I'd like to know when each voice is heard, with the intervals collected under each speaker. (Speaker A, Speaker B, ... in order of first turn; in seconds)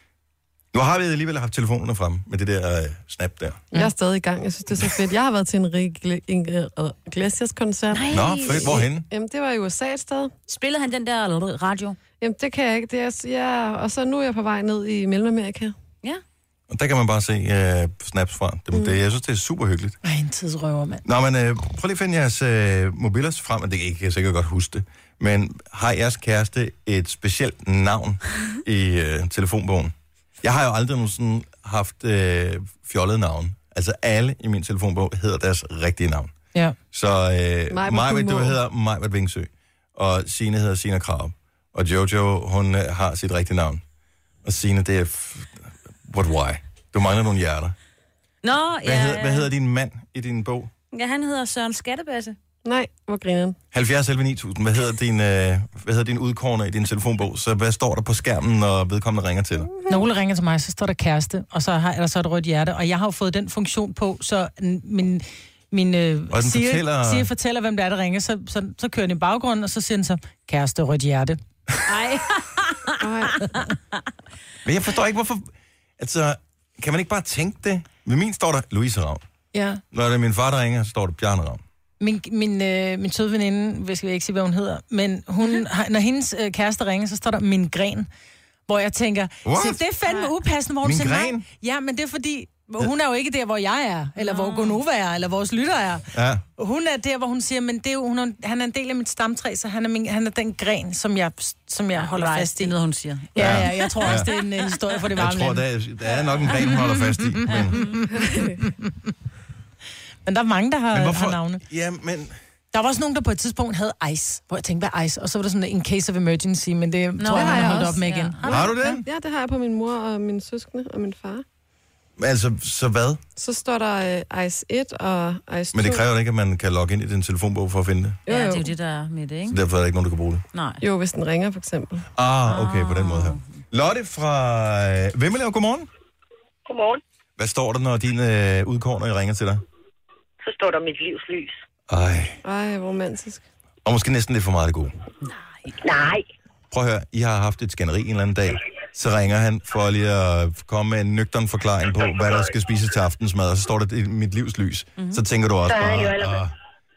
Speaker A: 0.7-3.7, 8.1-9.1, 16.7-20.0, 21.0-36.3, 36.9-43.8, 44.4-47.8, 48.8-50.7, 53.7-59.7, 66.3-67.3, 74.6-79.2, 79.9-81.6, 89.4-89.8, 90.8-91.4, 96.1-96.4, 103.4-104.3, 105.2-107.8, 110.9-112.4, 118.4-119.0, 122.2-123.2, 125.7-128.2, 129.5-130.4, 132.2-135.9, 137.4-139.6, 141.9-142.4, 143.8-144.9, 146.7-156.5
Speaker B: 3.7-10.3, 12.2-15.7, 37.7-38.5, 52.6-53.6, 73.0-73.6, 108.1-108.6, 117.3-121.4, 123.4-126.0, 128.2-128.7, 130.8-132.1, 142.4-143.4
Speaker C: 7.9-8.8, 10.5-12.0, 48.4-49.5, 50.9-52.4, 71.8-73.0, 90.1-90.3, 94.2-94.8, 102.0-104.3, 107.5-108.0, 117.2-118.6, 128.3-129.6, 130.5-130.8, 132.5-133.4
Speaker D: 20.0-21.0, 59.9-71.4, 79.5-79.8, 82.0-88.1, 88.7-102.7, 103.3-105.6, 107.5-108.9, 110.2-111.6, 112.7-118.7
Speaker E: 136.7-137.0, 140.4-141.6, 145.8-146.2, 155.6-156.4